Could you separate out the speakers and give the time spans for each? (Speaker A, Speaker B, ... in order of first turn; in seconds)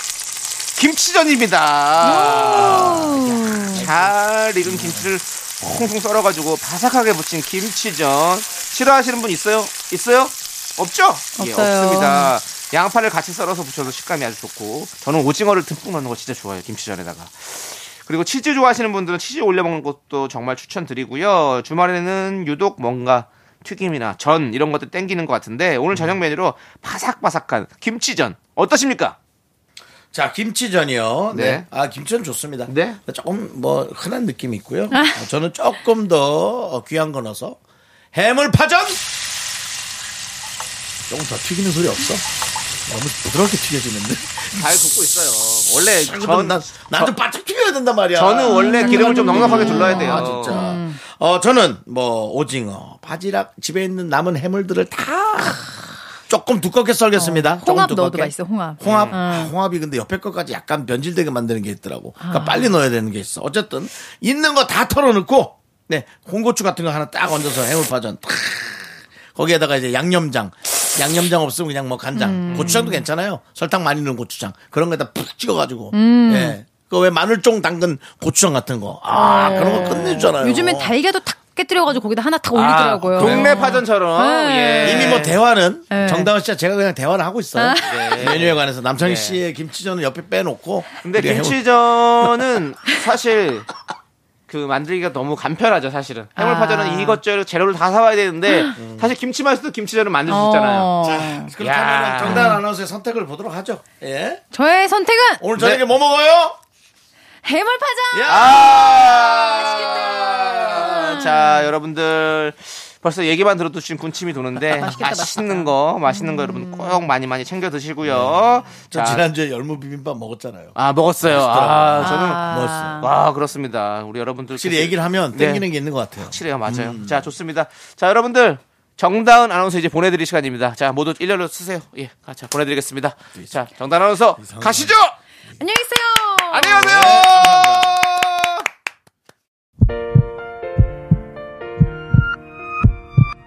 Speaker A: 0.8-29.2, 31.3-31.7, 32.7-33.0, 44.5-47.1, 48.1-50.6, 58.8-59.2, 72.5-72.8, 82.5-85.4, 87.8-89.4, 91.0-93.7, 94.5-100.9, 101.6-102.6, 105.6-105.8, 108.3-119.2, 120.8-122.4, 123.0-125.7, 126.2-135.2, 136.5-138.6
Speaker B: 2.0-3.9, 11.4-12.3, 34.9-35.2, 48.5-51.0, 57.2-59.5, 62.2-62.7, 72.2-73.0, 75.9-76.6, 79.1-85.3, 85.9-86.3, 87.6-88.2, 96.4-97.2, 98.5-98.8, 100.3-101.5, 102.2-102.6, 104.5-105.4, 107.4-111.7, 114.6-117.0, 122.0-123.1, 135.6-137.2
Speaker C: 2.6-4.1, 4.6-5.1, 30.1-37.6, 38.1-39.0, 41.1-42.3, 42.9-44.7, 46.0-80.9, 83.2-83.7, 84.8-92.3, 98.8-99.1, 101.0-104.4, 105.4-106.6, 108.1-109.2, 118.0-123.1, 124.6-127.3, 134.4-134.9, 136.7-137.9